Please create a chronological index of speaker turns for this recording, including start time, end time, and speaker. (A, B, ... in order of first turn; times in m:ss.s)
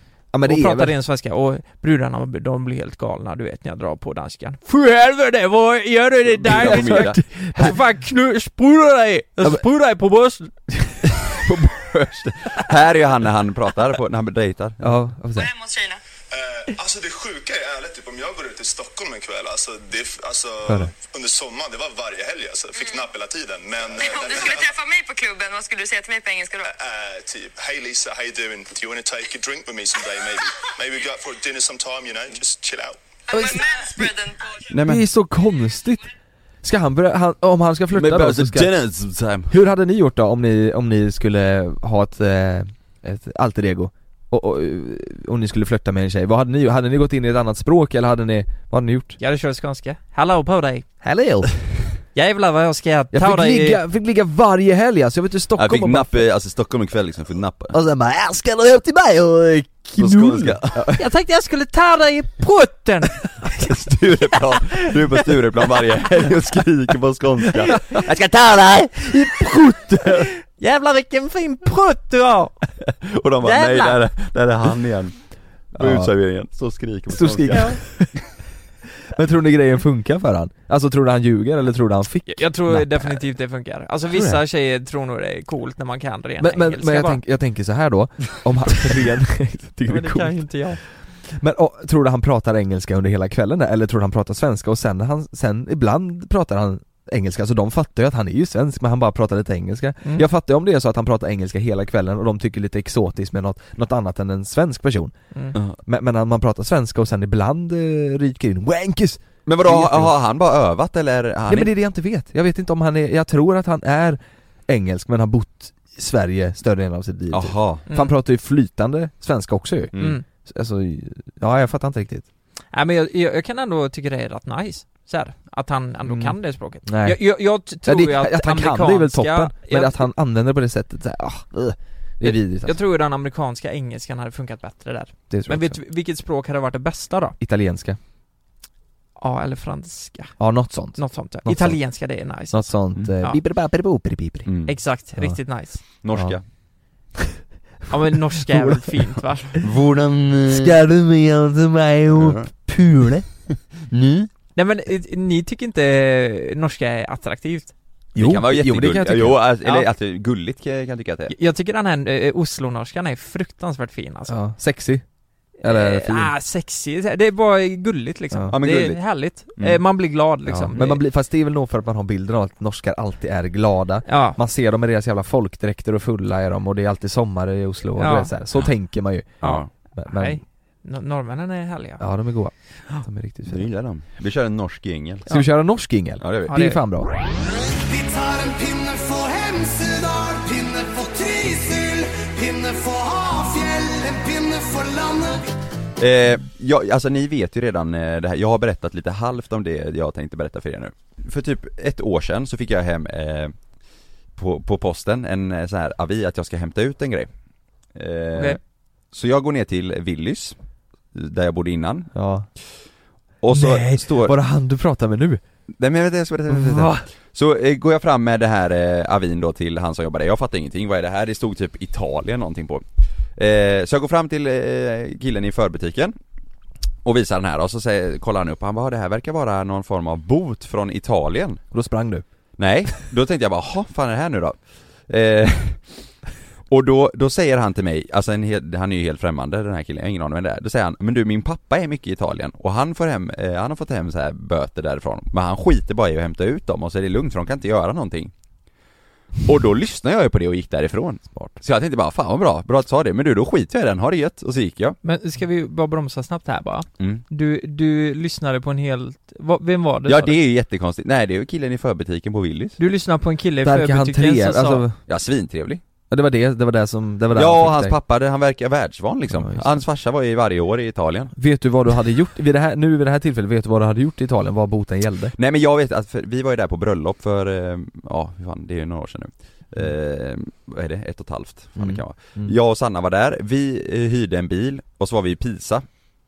0:00.3-0:00.9 A
0:00.4-0:10.5 B
0:06.4-0:07.2 C
0:06.4-0:07.8 A
0:10.8-0:12.0 A
0:12.4-0:14.8 C
0:14.8-0:15.5 A
0:15.3-0:16.0 D
0:16.3-0:24.7 E
0:20.6-0:20.9 A
0:24.0-0:26.7 D
0:26.6-0:33.0 E
0:33.3-0:34.6 D
0:33.3-0:34.2 A
0:34.7-0:35.0 C
0:34.8-0:38.7 A
0:37.9-0:39.5 C
0:39.5-0:49.2 A
0:49.2-0:50.8 B
0:51.0-0:51.5 A
0:52.1-0:53.8 B
0:53.1-0:56.2 A
0:55.6-0:57.7 C
0:57.7-1:00.9 A
1:00.0-1:00.9 C
1:01.0-1:03.5 B
1:03.6-1:08.6 C
1:07.7-1:10.2 A
1:10.4-1:12.5 B
1:13.0-1:15.1 C
1:13.4-1:14.0 B
1:15.7-1:17.8 C
1:15.8-1:16.1 A
1:17.1-1:18.2 A
1:17.5-1:17.8 B
1:19.1-1:23.2 A
1:22.3-1:27.2 B
1:24.1-1:24.4 A
1:26.4-1:45.1 A
1:29.9-1:30.8 B
1:45.8-1:50.1 A
1:49.4-1:51.7 C
1:51.5-2:02.3 A
1:57.3-1:57.8 C
2:00.0-2:00.2 B
2:02.7-2:10.1 B
2:06.0-2:07.2 A
2:07.8-2:12.8 A
2:12.2-2:17.4 B
2:15.3-2:15.8 A
2:17.4-2:18.0 A
2:19.2-2:20.4 B
2:20.4-2:21.8 A
2:20.9-2:22.6 B
2:22.5-2:24.5 A
2:24.4-2:24.7 C
2:24.7-2:25.8 B
2:26.0-2:26.4 C
2:27.9-2:28.9 A
2:27.9-2:29.6 B
2:29.6-2:30.7 C
2:30.5-2:33.2 A
2:32.1-2:32.5 C
2:33.9-2:34.2 C
2:34.5-2:37.7 B
2:38.1-2:39.4 A
2:38.2-2:41.3 C
2:41.3-2:44.4 B
2:44.3-2:45.0 A
2:45.6-2:46.3 A
2:45.6-2:51.0 B
2:48.5-2:49.0 C
2:50.5-3:00.4 A
2:54.0-2:54.4 B
2:58.0-2:58.3 B
2:59.4-3:02.0 B
2:59.4-2:59.7 C
3:02.0-3:03.7 A
3:03.4-3:05.2 C
3:05.3-3:07.1 A
3:06.2-3:06.5 C
3:06.5-3:06.8 B
3:07.8-3:15.4 F
3:16.0-3:23.5 C
3:24.4-3:27.3 C
3:27.9-3:28.6 C
3:29.1-3:30.5 C
3:31.1-3:32.1 C
3:32.1-3:32.5 A
3:33.4-3:34.3 C
3:33.5-3:35.4 A
3:35.8-3:42.8 C
3:36.5-3:37.0 A
3:43.4-3:46.1 C
3:47.0-3:51.6 C
3:51.7-3:52.2 A
3:52.6-3:54.6 C
3:55.1-3:56.0 C
3:56.7-4:08.3 C
4:09.4-4:15.0 C
4:15.0-4:20.4 B
4:17.0-4:17.2 C
4:20.0-4:22.8 C
4:22.8-4:24.8 B
4:23.6-4:25.0 A
4:25.1-4:25.8 C
4:26.1-4:27.9 A
4:27.3-4:31.3 C
4:29.3-4:29.8 A
4:31.4-4:35.3 A
4:35.4-4:45.8 C
4:41.8-4:42.5 A